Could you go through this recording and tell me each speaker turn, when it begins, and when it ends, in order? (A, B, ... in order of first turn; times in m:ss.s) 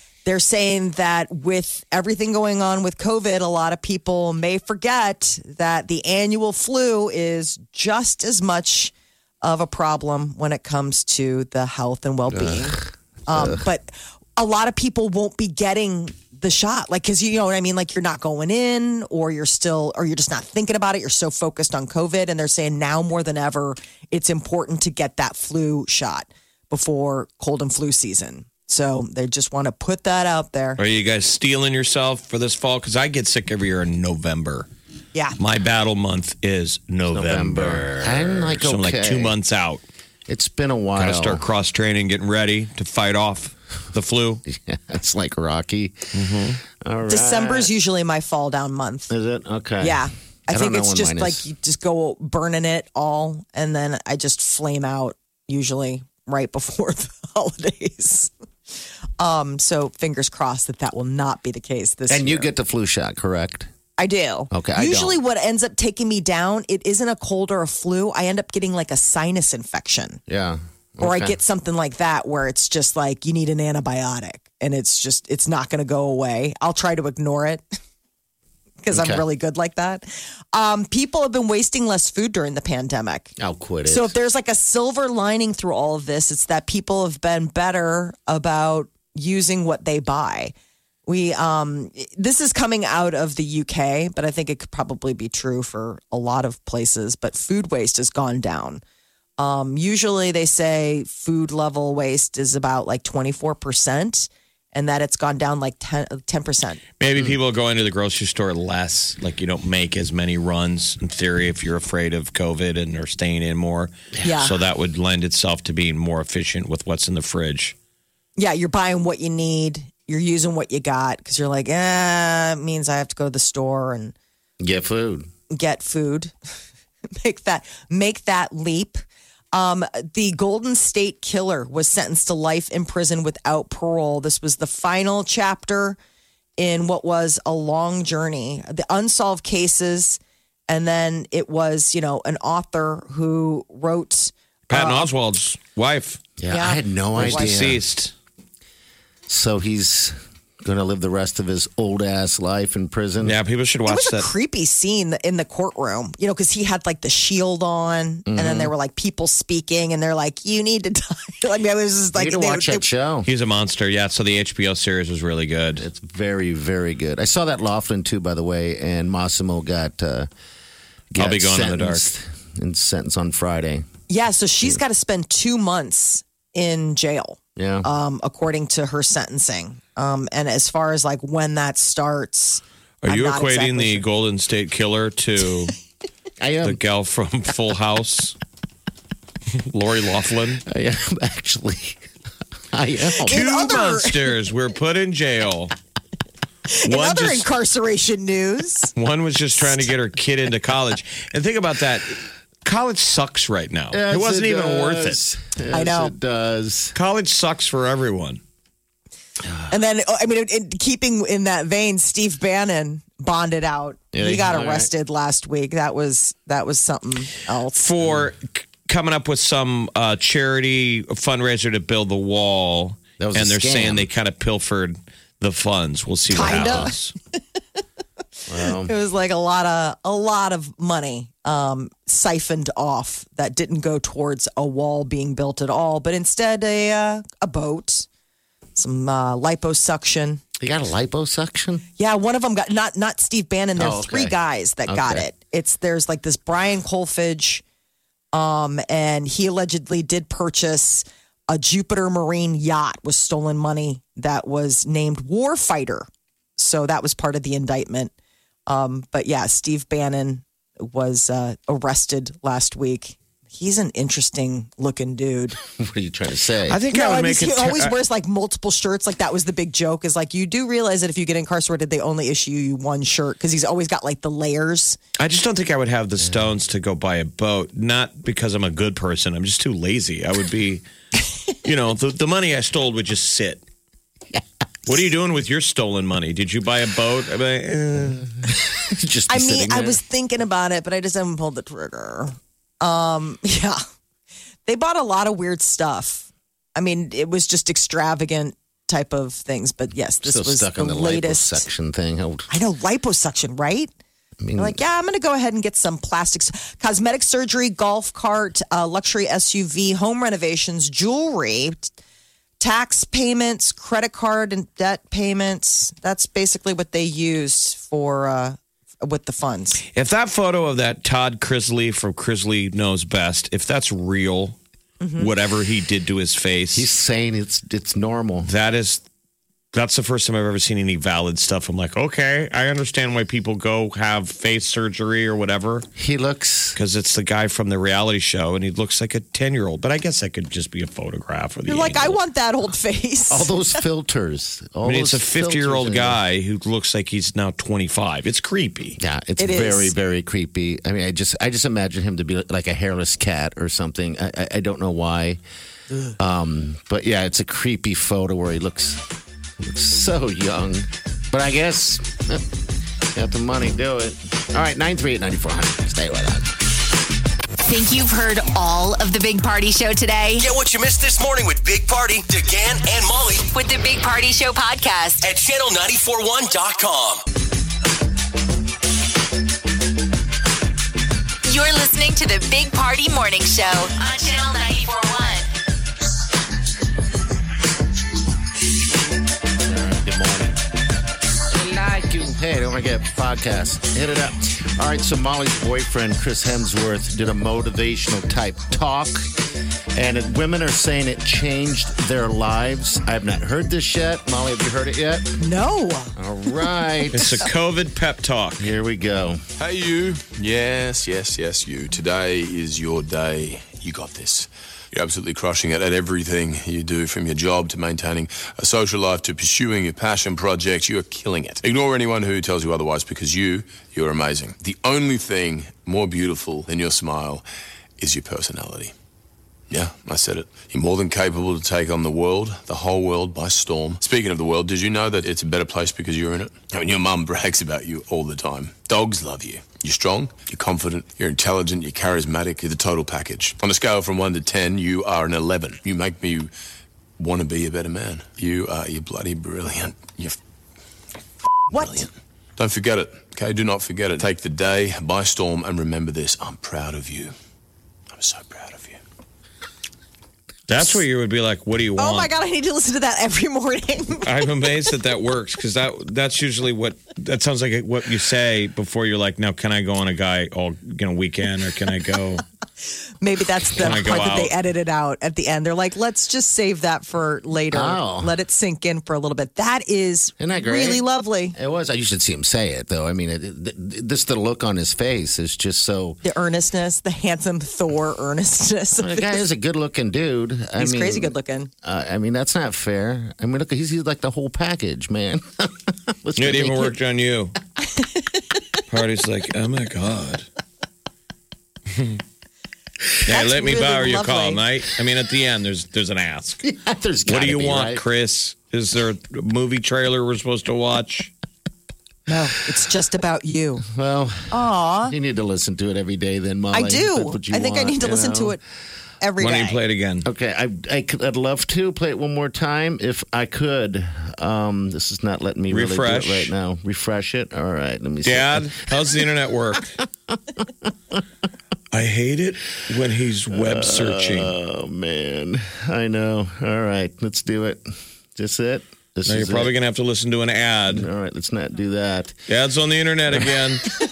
0:00.2-0:30.8 A
0:12.3-0:13.6 B
0:30.8-0:34.7 C
0:35.4-0:39.8 C
0:37.1-0:39.3 B
0:40.3-0:41.4 B
0:41.0-0:44.4 C
0:44.4-0:46.0 B
0:46.1-0:46.6 C
0:46.8-0:47.7 B
0:47.1-0:49.1 A
0:49.1-0:51.4 B
0:49.8-0:58.3 A
0:59.2-1:02.5 A
1:02.1-1:03.7 B
1:04.0-1:10.2 A
1:04.5-1:05.2 B
1:10.3-1:11.3 B
1:11.0-1:17.6 A
1:18.8-1:23.3 A
1:18.9-1:19.2 B
1:23.4-1:24.1 B
1:23.8-1:30.5 A
1:31.0-1:38.8 A
1:39.4-1:46.8 A
1:47.0-1:57.7 C
1:54.2-1:54.5 A
1:58.4-2:04.1 A
2:04.6-2:05.3 B
2:05.5-2:06.3 A
2:07.2-2:09.0 A
2:09.5-2:16.0 A
2:16.6-2:25.1 A
2:24.7-2:26.2 C
2:26.4-2:27.8 B
2:26.5-2:27.6 A
2:27.2-2:28.1 C
2:29.3-2:33.4 B
2:33.2-2:34.3 C
2:33.8-2:42.8 A
2:38.3-2:38.7 B
2:42.1-2:43.3 B
2:43.2-2:45.9 C
2:45.8-2:50.3 B
2:51.1-2:53.8 B
2:51.2-2:52.1 C
2:54.1-3:04.0 A
2:57.6-2:57.9 B
3:03.0-3:05.8 C
3:06.4-3:06.8 B
3:06.6-3:08.4 C
3:09.6-3:10.6 C
3:10.6-3:12.0 B
3:12.7-3:13.4 B
3:13.2-3:14.2 A
3:13.3-3:15.7 C
3:16.7-3:18.9 A
3:16.8-3:17.5 C
3:19.0-3:25.2 C
3:23.9-3:26.9 B
3:25.7-3:26.1 A
3:26.9-3:28.4 C
3:29.7-3:37.8 A
3:34.1-3:34.9 B
3:37.8-3:47.1 C
3:43.2-3:44.1 B
3:46.3-3:46.9 A
3:46.5-3:46.8 B
3:48.5-3:48.9 B
3:48.7-3:58.1 A
3:58.8-4:00.4 A
4:00.6-4:01.8 B
4:02.0-4:07.6 A
4:03.8-4:04.4 B
4:04.9-4:05.2 B
4:08.3-4:18.1 A
4:18.7-4:25.6 A
4:25.7-4:26.8 B
4:26.7-4:27.9 C
4:26.9-4:35.0 A
4:35.2-4:40.8 C
4:36.2-4:36.5 B
4:41.6-4:43.6 C
4:44.8-4:48.2 C
4:48.5-4:50.0 B
4:49.3-4:53.8 A
4:54.6-5:01.7 A
5:00.2-5:02.5 B
5:02.5-5:03.9 A
5:04.4-5:04.8 B
5:04.6-5:11.9 A
5:12.6-5:19.8 A
5:19.9-5:24.6 C
5:25.0-5:25.3 A
5:25.2-5:26.9 C
5:26.7-5:28.5 B
5:28.4-5:29.0 C
5:29.7-5:35.9 C
5:36.0-5:36.8 B
5:36.8-5:42.2 C
5:41.7-5:43.8 A
5:43.3-5:46.2 B
5:44.8-5:49.0 C
5:49.0-5:55.4 B
5:49.4-5:49.9 A
5:56.2-5:59.0 B
5:59.6-6:02.4 B
6:03.1-6:06.5 B
6:07.6-6:10.5 D
6:10.4-6:13.4 E
6:13.4-6:15.3 D
6:15.2-6:17.2 E
6:21.4-6:25.5 D
6:29.6-6:30.6 B
6:31.5-6:39.3 B
6:39.9-6:45.3 B
6:45.4-6:46.1 A
6:46.2-6:47.4 B
6:47.1-6:48.7 C
6:48.6-6:49.4 B
6:49.6-7:07.4 F
7:08.0-7:08.9 F
7:09.7-7:26.5 F
7:27.2-7:30.4 F
7:31.7-7:32.1 A
7:31.7-7:37.3 F
7:38.1-7:39.0 F
7:40.7-7:42.3 C
7:42.0-7:44.5 A
7:44.2-7:52.4 C
7:53.2-8:01.6 A
7:53.7-7:54.5 C
7:57.7-7:58.3 B
8:00.4-8:01.0 B
8:01.5-8:06.2 B
8:06.2-8:09.4 A
8:09.0-8:17.0 B
8:10.8-8:11.7 A
8:16.4-8:17.6 C
8:18.9-8:20.4 C
8:21.9-8:22.2 C
8:23.2-8:26.6 C
8:23.2-8:24.6 A
8:26.6-8:28.0 B
8:27.3-8:31.3 C
8:32.3-8:33.8 A
8:33.9-8:34.5 B
8:34.5-8:35.1 A
8:35.1-8:38.6 B
8:36.7-8:38.6 A
8:39.2-8:39.8 A
8:39.4-8:40.3 C
8:40.2-8:49.2 B
8:45.7-8:46.5 C
8:48.2-8:49.9 C
8:51.9-8:54.5 C
8:53.5-8:59.7 B
8:59.2-9:01.1 C
9:00.9-9:02.4 B
9:02.5-9:03.8 C